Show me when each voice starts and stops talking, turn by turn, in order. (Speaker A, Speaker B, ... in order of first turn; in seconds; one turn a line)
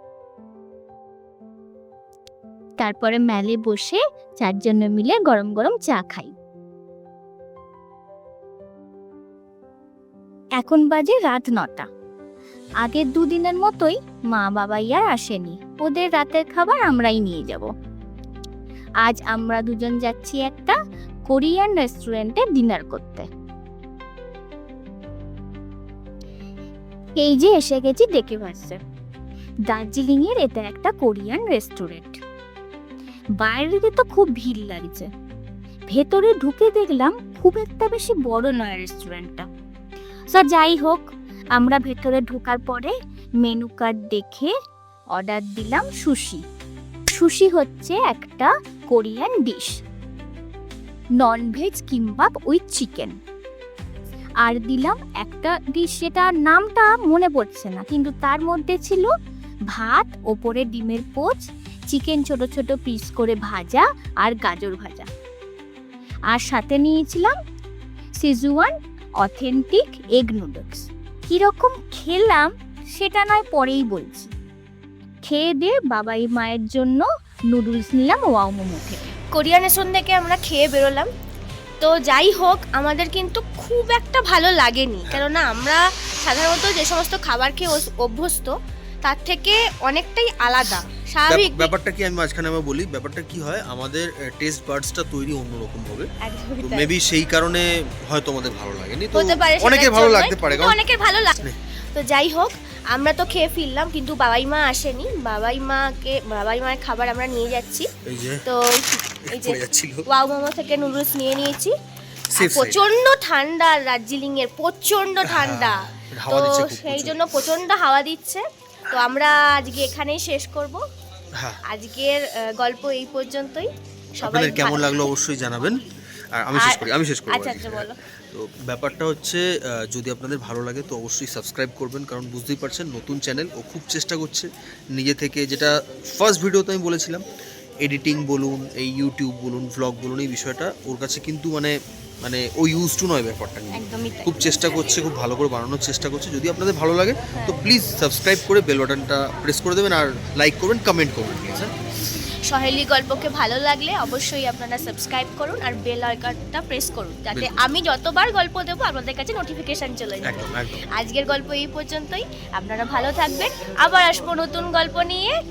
Speaker A: 2.8-6.3
Speaker A: 10.6-11.9
Speaker A: 12.8-17.7
Speaker A: 19.0-20.8
Speaker A: 21.3-23.3
Speaker A: 27.2-28.8
Speaker A: 29.7-32.2
Speaker A: 33.4-35.1
Speaker A: 35.9-39.5
Speaker A: 40.3-44.5
Speaker A: 45.1-46.4
Speaker A: 47.1-49.8
Speaker A: 51.2-53.2
Speaker A: 54.4-59.1
Speaker A: 59.7-65.1
Speaker A: 66.3-67.3
Speaker A: 68.2-74.3
Speaker A: 75.2-79.2
Speaker B: 79.3-81.1
Speaker B: 81.8-91.7
Speaker C: 91.3-100.8
Speaker B: 96.2-96.9
Speaker B: 99.1-107.9
Speaker C: 108.0-108.4
Speaker B: 108.5-111.7
Speaker C: 109.2-110.0
Speaker C: 112.3-112.8
Speaker B: 112.3-120.8
Speaker C: 115.2-117.2
Speaker B: 121.7-123.7
Speaker B: 124.2-125.1
Speaker C: 124.2-125.8
Speaker C: 126.3-137.2
Speaker B: 126.5-127.9
Speaker C: 137.8-151.7
Speaker B: 143.8-144.3
Speaker B: 152.5-165.3
Speaker C: 160.2-160.8